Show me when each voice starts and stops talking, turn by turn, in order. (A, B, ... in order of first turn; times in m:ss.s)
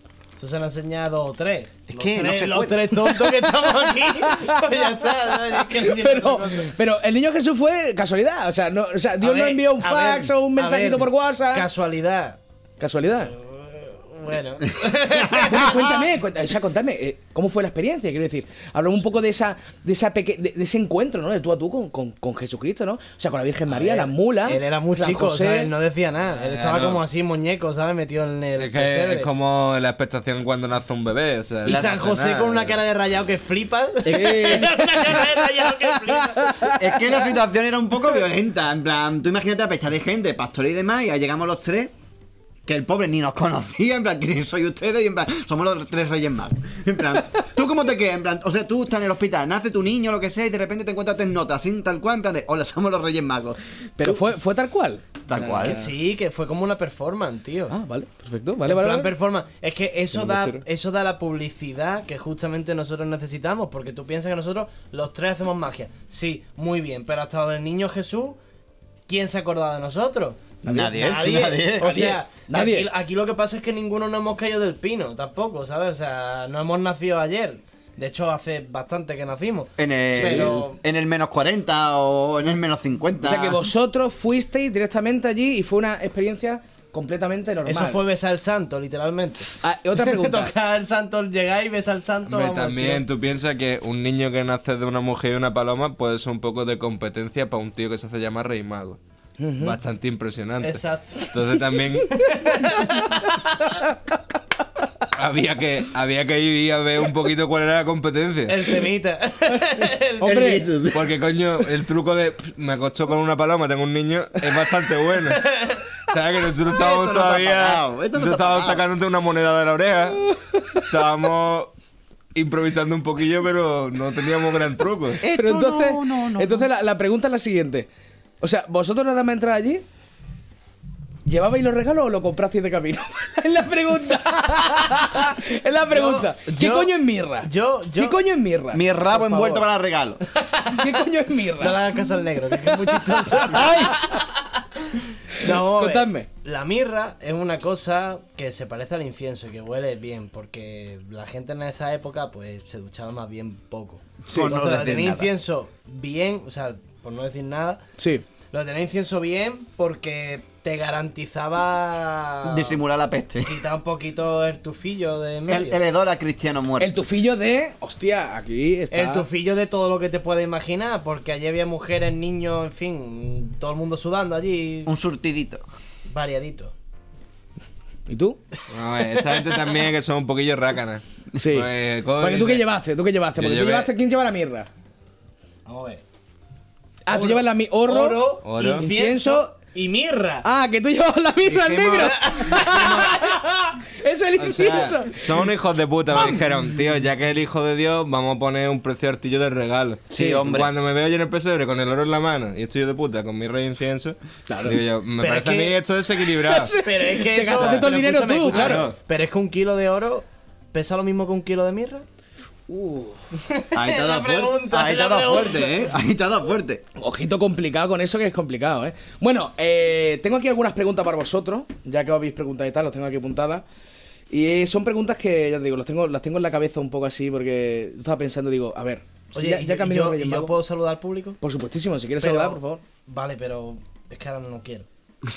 0:00.4-0:06.7 A
0:01.9-0:03.0 B
0:04.2-0:04.9 C
0:05.4-0:11.7 C
0:09.2-0:12.4 A
0:12.8-0:13.3 C
0:13.2-0:15.9 A
0:14.8-0:15.6 B
0:15.4-0:25.7 C
0:23.7-0:29.3 A
0:26.4-0:27.0 D
0:28.6-0:32.8 D
0:31.7-0:36.7 A
0:34.0-0:37.0 C
0:36.7-0:41.9 B
0:42.7-0:53.6 B
0:54.0-0:55.9 C
0:55.3-0:55.8 B
0:55.6-0:57.8 A
0:57.7-0:59.1 C
0:58.6-1:08.4 A
1:00.1-1:00.6 C
1:09.1-1:10.4 A
1:10.6-1:12.9 C
1:10.6-1:12.0 B
1:10.9-1:20.8 A
1:19.8-1:23.6 B
1:20.1-1:20.6 C
1:23.2-1:28.0 C
1:27.7-1:33.0 A
1:29.6-1:30.5 C
1:32.3-1:39.0 D
1:39.4-1:39.8 C
1:39.6-1:42.3 D
1:40.6-1:41.3 A
1:42.1-1:43.4 A
1:45.1-1:48.7 D
1:48.5-1:50.6 A
1:50.2-1:50.7 C
1:50.2-1:51.0 B
1:50.9-1:55.5 D
1:55.4-1:55.8 A
1:56.1-2:00.3 D
1:56.7-1:58.8 B
2:00.9-2:01.7 D
2:02.4-2:05.2 D
2:05.2-2:06.7 B
2:05.2-2:07.9 C
2:08.4-2:09.8 C
2:11.2-2:19.7 C
2:15.9-2:18.2 A
2:18.7-2:20.2 B
2:20.4-2:21.0 A
2:20.7-2:22.0 C
2:21.6-2:24.0 A
2:22.6-2:24.0 C
2:23.5-2:24.0 B
2:25.4-2:37.8 A
2:25.4-2:26.3 C
2:34.3-2:35.3 B
2:38.0-2:38.2 C
2:38.5-2:42.8 A
2:42.4-2:43.6 B
2:43.4-2:45.8 A
2:45.5-2:47.0 B
2:46.8-2:49.3 C
2:48.9-2:54.9 A
2:54.9-2:55.6 B
2:56.1-2:56.7 A
2:58.1-2:58.4 C
2:58.7-3:02.7 D
3:01.4-3:04.7 C
3:03.4-3:03.9 D
3:05.7-3:06.0 A
3:07.0-3:09.5 C
3:07.1-3:10.5 A
3:08.4-3:08.9 D
3:10.4-3:15.5 C
3:11.4-3:13.2 D
3:12.0-3:13.2 A
3:14.4-3:26.7 D
3:20.1-3:20.5 C
3:20.1-3:20.7 B
3:24.5-3:24.8 C
3:25.2-3:25.8 A
3:26.4-3:28.9 C
3:26.7-3:32.0 A
3:27.6-3:27.9 D
3:28.5-3:29.0 D
3:32.7-3:33.2 C
3:33.5-3:35.9 A
3:33.8-3:36.8 B
3:37.0-3:43.6 C
3:44.3-3:50.6 C
3:49.4-3:51.4 A
3:51.4-3:52.8 C
3:52.2-3:54.9 A